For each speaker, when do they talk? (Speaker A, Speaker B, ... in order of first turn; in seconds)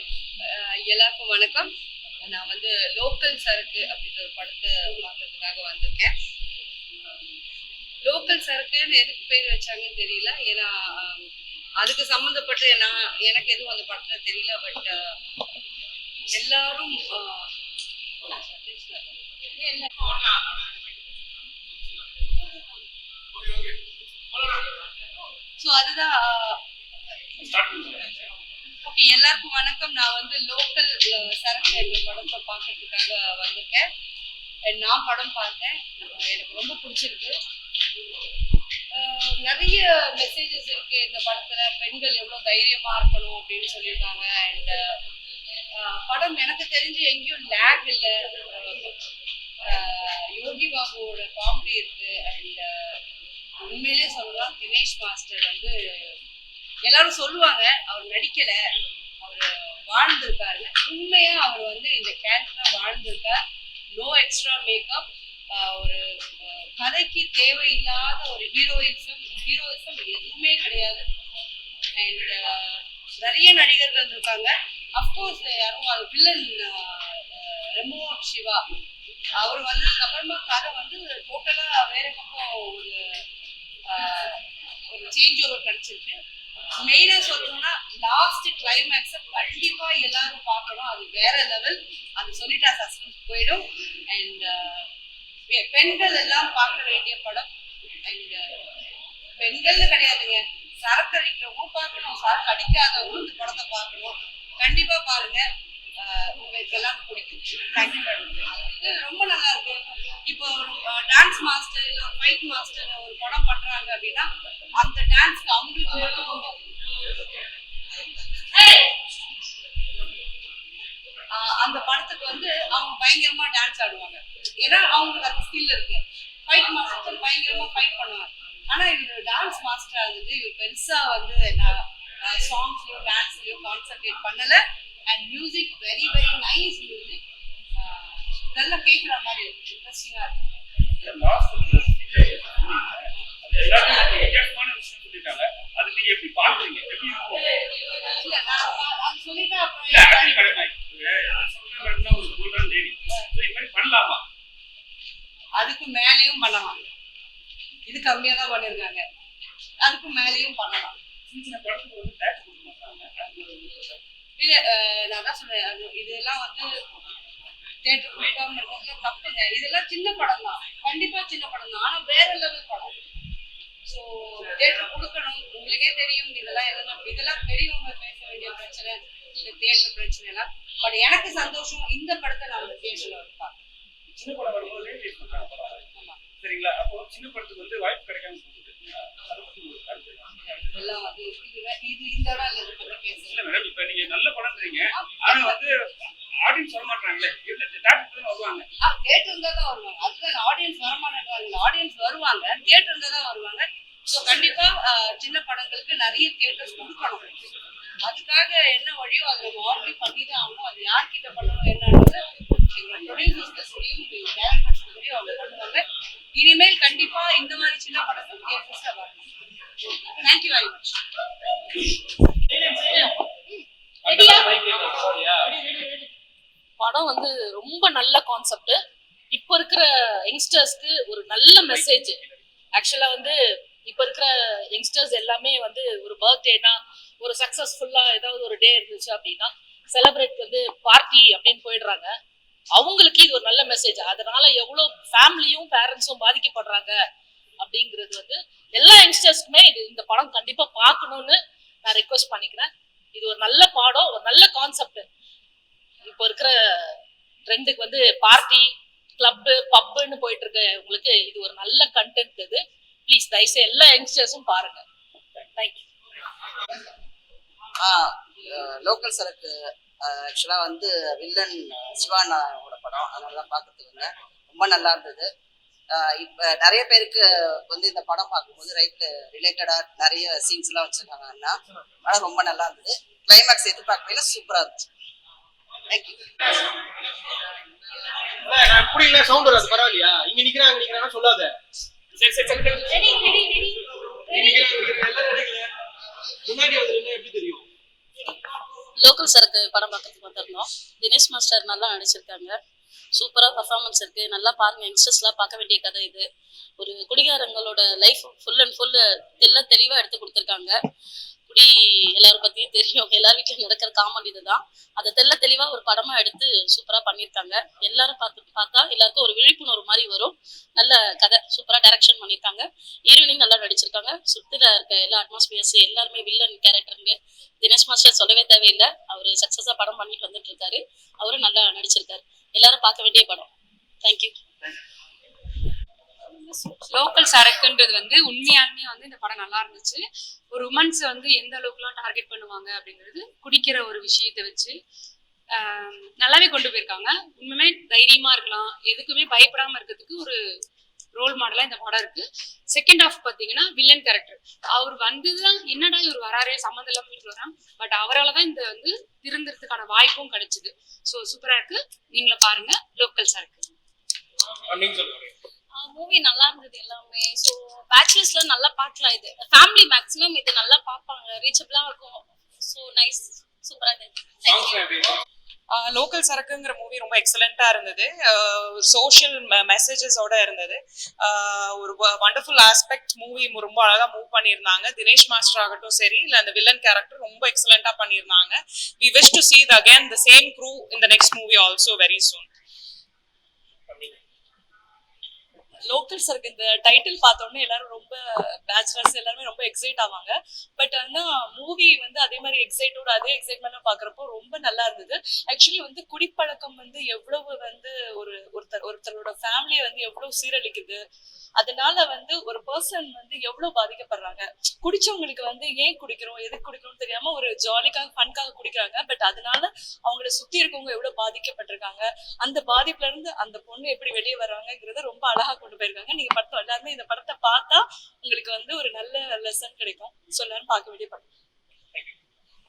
Speaker A: 0.5-1.7, 2.2-6.1, 8.0-11.3, 11.8-14.9, 16.3-17.4, 18.2-19.2, 19.9-20.2, 25.6-26.6, 28.8-33.9, 34.7-37.3, 38.9-44.8, 45.8-48.9, 49.7-52.7, 53.7-55.7, 56.8-58.6, 59.2-63.4, 64.0-71.0, 72.0-78.6, 79.4-83.0, 83.9-84.4, 84.9-86.2, 86.8-94.8, 95.5-97.5, 98.0-98.4, 99.4-105.4, 106.0-116.7, 118.6-118.9, 121.3-137.2, 137.8-140.4, 148.0-150.6, 155.6-156.8, 157.9-159.0, 159.8-160.9, 164.4-166.7, 167.8-172.9, 173.8-183.6, 190.7-193.4, 194.9-195.6, 198.8-207.3, 208.0-215.8, 216.3-219.2, 220.2-220.9
Speaker B: 27.4-28.2, 141.0-147.4, 149.9-154.2, 161.3-164.0, 184.2-185.8, 186.4-190.6, 193.3-195.7, 196.4-198.7, 292.2-293.2
Speaker C: 224.0-225.5, 288.4-291.5, 294.3-295.7, 296.4-297.6, 364.7-365.3, 374.7-375.0
Speaker D: 224.1-224.4, 226.8-228.8, 229.3-232.2, 232.7-242.1, 242.7-247.0, 247.6-255.0, 256.0-256.9, 257.5-264.8
Speaker E: 267.8-275.3, 275.9-284.9, 285.9-286.2
Speaker F: 293.3-293.6, 336.4-344.8, 345.5-350.4, 351.1-363.6
Speaker G: 299.0-302.6, 303.1-306.2, 306.8-310.8, 311.5-333.5, 334.0-334.4, 365.8-374.8
Speaker H: 375.7-392.5
Speaker I: 395.9-398.2, 398.7-411.0, 411.6-431.2